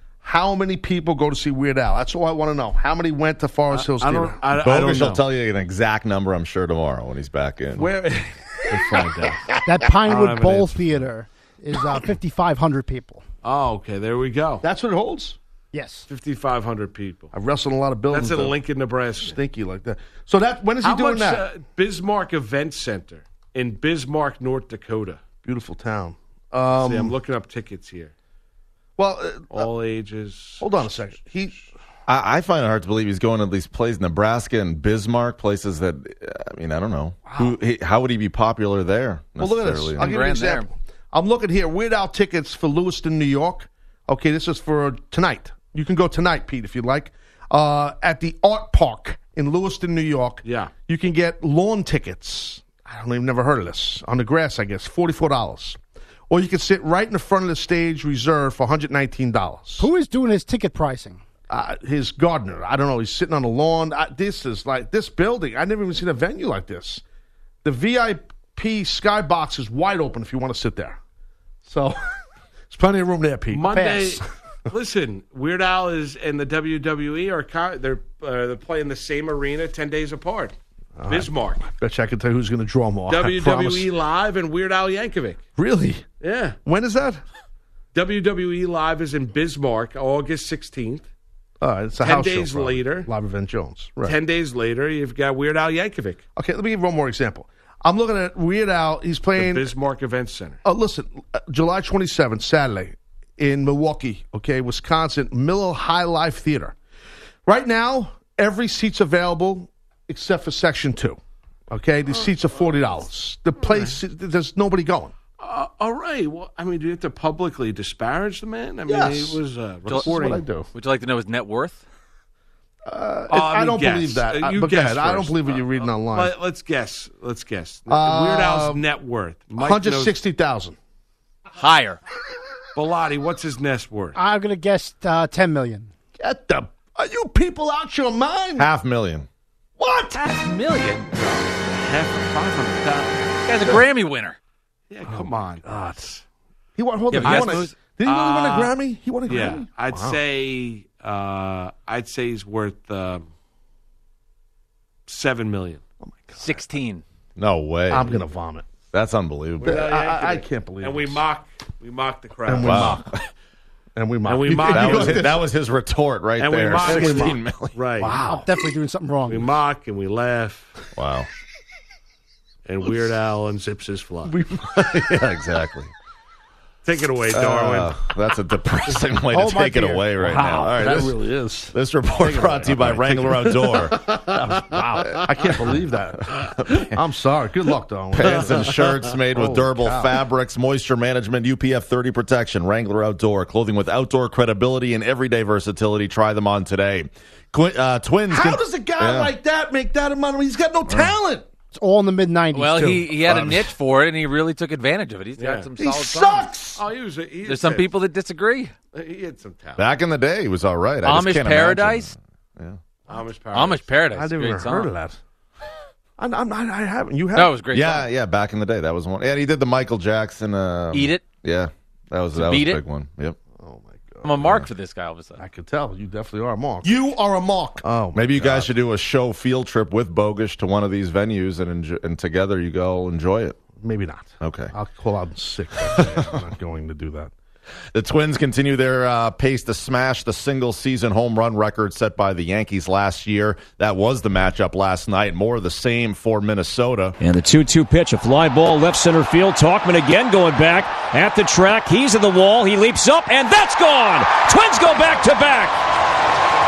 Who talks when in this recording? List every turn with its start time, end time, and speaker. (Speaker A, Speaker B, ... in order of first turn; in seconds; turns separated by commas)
Speaker A: 0.2-4.4, Speaker B: 3.7-5.2, Speaker C: 4.5-7.9, Speaker A: 7.8-9.4, Speaker B: 8.7-9.5, Speaker D: 9.7-13.2, Speaker B: 10.0-11.0, Speaker B: 13.4-14.6, Speaker A: 14.6-15.4, Speaker D: 15.7-16.1, Speaker B: 16.1-17.3, Speaker A: 17.3-18.6, Speaker B: 18.1-19.4, Speaker A: 19.2-21.5, Speaker B: 20.8-25.2, Speaker A: 25.4-27.2, Speaker B: 26.8-28.1, Speaker A: 29.0-29.7, Speaker B: 29.5-31.1, Speaker A: 30.6-31.6, Speaker C: 32.1-40.2, Speaker A: 37.3-37.6, Speaker A: 39.4-59.9, Speaker E: 40.0-40.7, Speaker B: 50.4-50.7, Speaker D: 59.8-61.2, Speaker A: 61.5-67.0, Speaker A: 67.6-71.0, Speaker A: 71.6-72.0, Speaker A: 72.7-74.2, Speaker B: 73.5-80.5, Speaker D: 73.7-74.2, Speaker A: 81.0-83.9, Speaker B: 81.1-81.7, Speaker B: 83.1-85.4, Speaker A: 85.6-86.1, Speaker B: 86.2-86.6, Speaker A: 86.7-87.2, Speaker B: 87.9-91.1, Speaker A: 91.6-94.2, Speaker B: 92.0-93.1, Speaker B: 94.0-96.2, Speaker A: 96.4-99.7, Speaker B: 99.4-100.6, Speaker A: 100.7-106.8, Speaker A: 107.5-111.2, Speaker A: 111.7-115.1, Speaker B: 113.6-114.0, Speaker B: 115.4-120.4, Speaker A: 118.9-119.4, Speaker E: 119.9-121.8, Speaker A: 119.9-120.7, Speaker A: 122.9-126.3, Speaker B: 123.3-130.2, Speaker A: 127.9-128.8, Speaker A: 129.6-130.8, Speaker E: 131.6-132.0, Speaker B: 132.8-134.2, Speaker D: 134.2-135.9, Speaker A: 136.2-138.7, Speaker C: 138.6-139.3, Speaker A: 139.8-140.2, Speaker E: 140.1-141.4, Speaker B: 141.5-143.8, Speaker E: 143.4-144.4, Speaker B: 144.9-146.2, Speaker A: 145.1-146.1, Speaker A: 146.8-150.2, Speaker E: 147.1-147.8, Speaker B: 147.2-153.3, Speaker B: 155.1-155.8, Speaker A: 156.0-156.6, Speaker E: 156.4-157.0, Speaker C: 157.4-158.2, Speaker A: 157.9-158.7, Speaker C: 158.9-159.8, Speaker B: 159.6-163.0, Speaker A: 159.6-161.2, Speaker A: 162.5-163.2, Speaker C: 162.6-163.2, Speaker A: 163.9-165.4, Speaker B: 164.2-165.4, Speaker C: 164.7-167.8, Speaker B: 166.4-168.2, Speaker A: 166.8-167.4, Speaker A: 168.0-168.5, Speaker D: 168.2-169.5, Speaker B: 169.3-170.7, Speaker C: 170.9-171.3, Speaker B: 172.7-174.4, Speaker A: 174.2-175.1, Speaker C: 174.7-175.9, Speaker B: 176.8-178.0, Speaker C: 177.3-181.2, Speaker D: 179.3-180.1, Speaker A: 180.2-190.2, Speaker C: 181.7-184.1, Speaker B: 183.3-184.1, Speaker C: 186.6-186.9, Speaker C: 188.1-199.3, Speaker A: 198.3-201.5, Speaker D: 201.7-203.1, Speaker E: 202.5-206.6, Speaker A: 202.9-203.6, Speaker C: 203.3-203.5, Speaker B: 205.4-205.7, Speaker A: 205.8-206.8, Speaker B: 206.8-207.9, Speaker E: 207.4-208.7, Speaker B: 208.9-209.9, Speaker C: 209.8-212.8, Speaker E: 211.0-212.1, Speaker B: 213.1-213.9, Speaker E: 213.5-214.9, Speaker A: 214.1-215.2, Speaker A: 216.2-217.6, Speaker E: 217.3-218.1, Speaker C: 217.7-223.4, Speaker E: 220.9-221.4, Speaker E: 222.3-222.8, Speaker A: 223.6-224.4, Speaker E: 224.2-225.4, Speaker A: 225.4-228.7, Speaker C: 228.1-233.6, Speaker A: 233.8-237.3, Speaker C: 234.4-234.7, Speaker C: 237.9-247.2, Speaker F: 247.2-255.8